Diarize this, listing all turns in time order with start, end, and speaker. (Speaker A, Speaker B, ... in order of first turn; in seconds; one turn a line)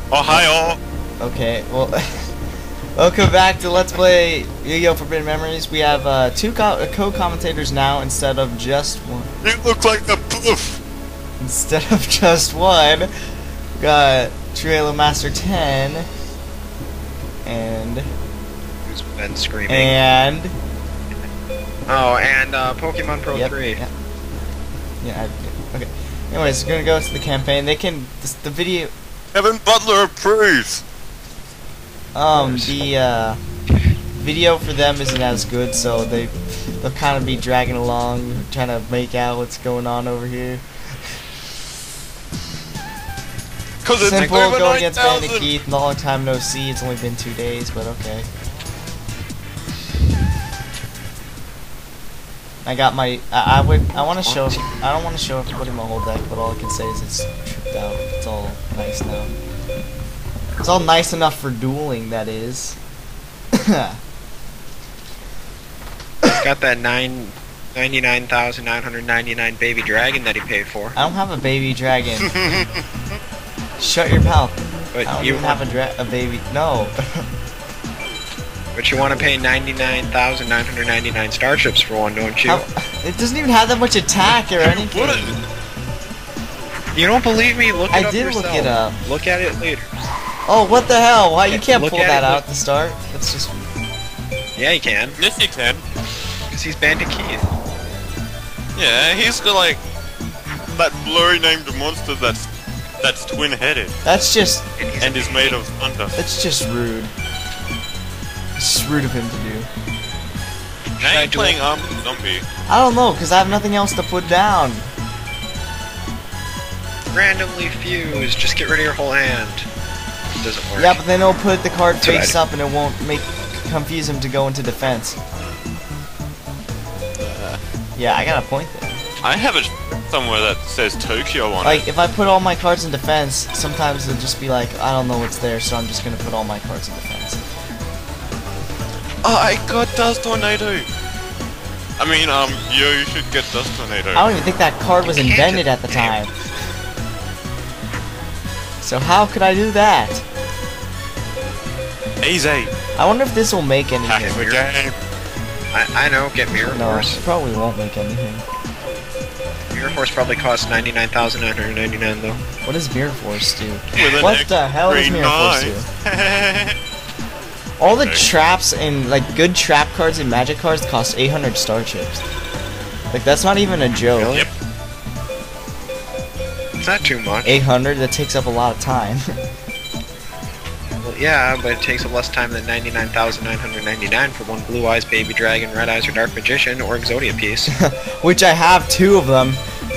Speaker A: 0.1-0.8
Speaker B: 1.2-2.0
Speaker B: 3.0-9.3
Speaker A: 9.4-10.8
Speaker B: 11.4-13.1
Speaker B: 13.8-16.1
Speaker B: 17.4-18.1
Speaker C: 18.9-20.0
Speaker B: 19.7-20.5
Speaker C: 21.9-23.8
Speaker B: 23.3-23.9
Speaker B: 25.0-28.9
Speaker A: 29.3-30.8
Speaker B: 32.1-33.4
Speaker C: 32.3-32.9
Speaker B: 34.2-40.6
Speaker A: 43.8-45.5
Speaker B: 44.0-48.3
Speaker C: 44.2-44.4
Speaker B: 52.6-59.3
Speaker C: 54.0-54.7
Speaker B: 60.6-62.8
Speaker B: 63.6-64.0
Speaker C: 66.3-71.0
Speaker B: 71.0-72.3
Speaker A: 72.2-72.8
Speaker B: 73.8-77.0
Speaker C: 74.9-75.6
Speaker C: 78.8-82.7
Speaker B: 82.5-85.3
Speaker A: 84.6-85.4
Speaker C: 86.9-89.9
Speaker B: 87.9-89.0
Speaker B: 90.5-93.6
Speaker C: 91.5-92.4
Speaker C: 94.6-95.2
Speaker A: 95.2-95.8
Speaker C: 96.5-97.4
Speaker A: 98.8-99.8
Speaker A: 100.7-102.5
Speaker A: 103.0-104.0
Speaker B: 104.0-104.7
Speaker C: 104.8-105.6
Speaker A: 105.0-106.2
Speaker B: 106.2-107.1
Speaker B: 108.6-109.7
Speaker C: 111.0-111.6
Speaker A: 111.0-112.5
Speaker B: 112.7-114.9
Speaker C: 117.1-119.7
Speaker C: 120.4-121.0
Speaker B: 120.8-125.2
Speaker C: 122.0-122.4
Speaker A: 127.2-127.6
Speaker B: 128.0-129.0
Speaker A: 129.2-131.9
Speaker B: 131.6-137.4
Speaker A: 139.2-140.9
Speaker A: 142.0-144.3
Speaker B: 144.1-146.3
Speaker C: 145.0-146.2
Speaker B: 148.8-150.2
Speaker A: 152.2-152.7
Speaker B: 153.0-154.4
Speaker A: 154.1-155.0
Speaker C: 154.2-154.6
Speaker C: 155.7-157.2
Speaker B: 156.5-158.4
Speaker C: 159.7-162.4
Speaker B: 162.6-165.9
Speaker A: 163.9-166.8
Speaker B: 167.8-172.2
Speaker A: 167.8-168.3
Speaker B: 173.1-174.3
Speaker C: 174.2-174.5
Speaker C: 176.8-177.6
Speaker B: 177.4-179.2
Speaker C: 181.0-187.7
Speaker B: 187.7-189.6